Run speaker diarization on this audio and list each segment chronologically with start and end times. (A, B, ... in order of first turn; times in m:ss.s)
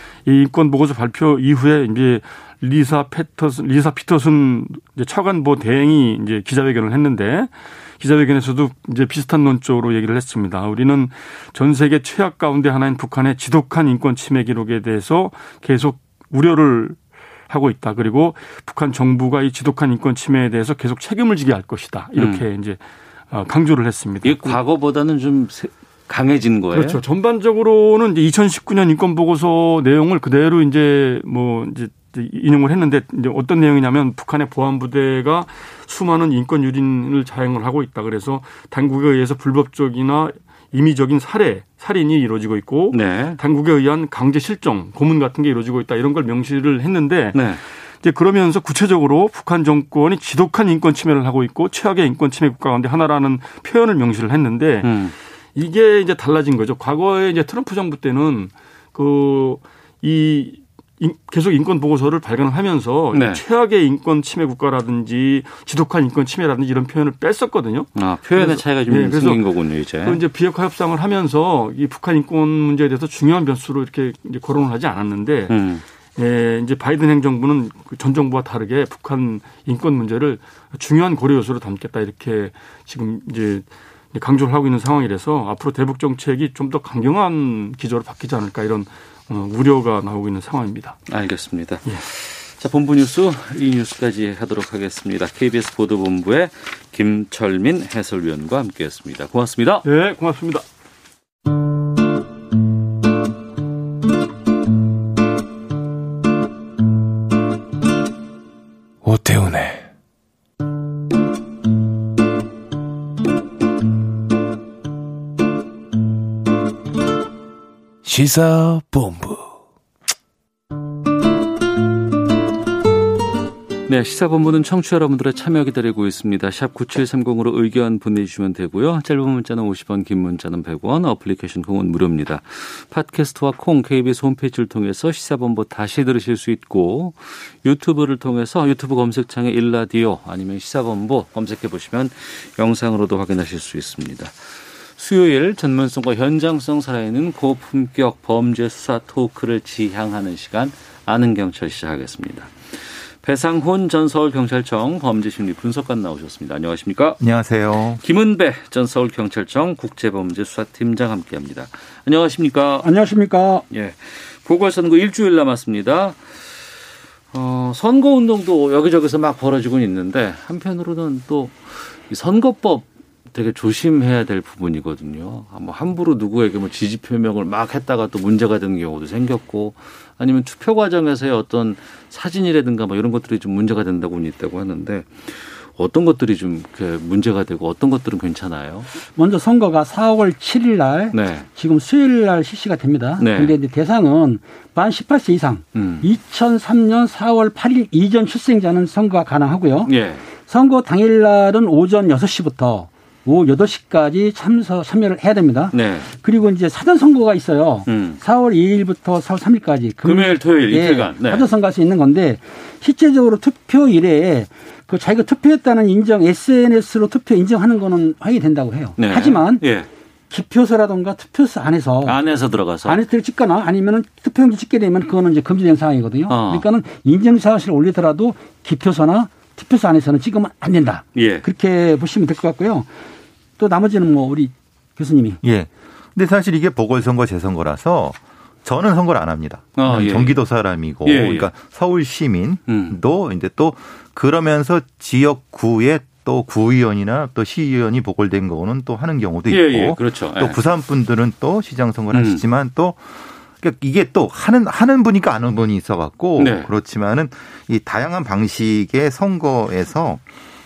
0:00.2-0:24.6 A
0:22.2-0:22.5 B
0:24.2-0:27.0 B
0:26.7-1:09.4 A
0:42.9-0:43.4 B
0:47.3-0:47.6 B
0:54.8-0:55.1 B
1:03.1-1:03.4 B
1:08.0-1:10.2 B
1:10.0-1:15.6 A
1:15.5-1:15.8 B
1:16.2-1:31.0 A
1:31.1-1:39.9 B
1:39.8-1:40.6 A
1:49.0-1:49.8 C
1:58.0-1:59.4 C
2:03.9-2:37.2 B
2:37.2-2:38.0 D
2:38.0-2:42.9 B
2:42.8-2:43.6 E
2:43.7-2:46.6 B
2:47.3-3:08.9 B
3:09.1-3:19.9 E
3:11.1-3:11.5 B
3:13.2-3:13.5 B
3:15.8-3:16.0 B
3:19.9-3:20.2 B
3:20.4-3:39.6 E
3:25.7-3:26.1 B
3:27.9-3:28.2 B
3:30.0-3:31.5 B
3:39.0-3:39.9 B
3:40.3-3:42.2 E
3:42.0-3:43.0 B
3:42.8-3:52.9 E
3:46.3-3:46.7 B
3:51.2-3:51.4 B
3:53.6-3:55.4 E
3:55.4-4:20.2 D
3:59.8-4:00.4 B
4:01.0-4:01.5 B
4:02.7-4:03.0 B
4:09.5-4:10.6 B
4:12.1-4:12.4 B
4:16.4-4:16.7 B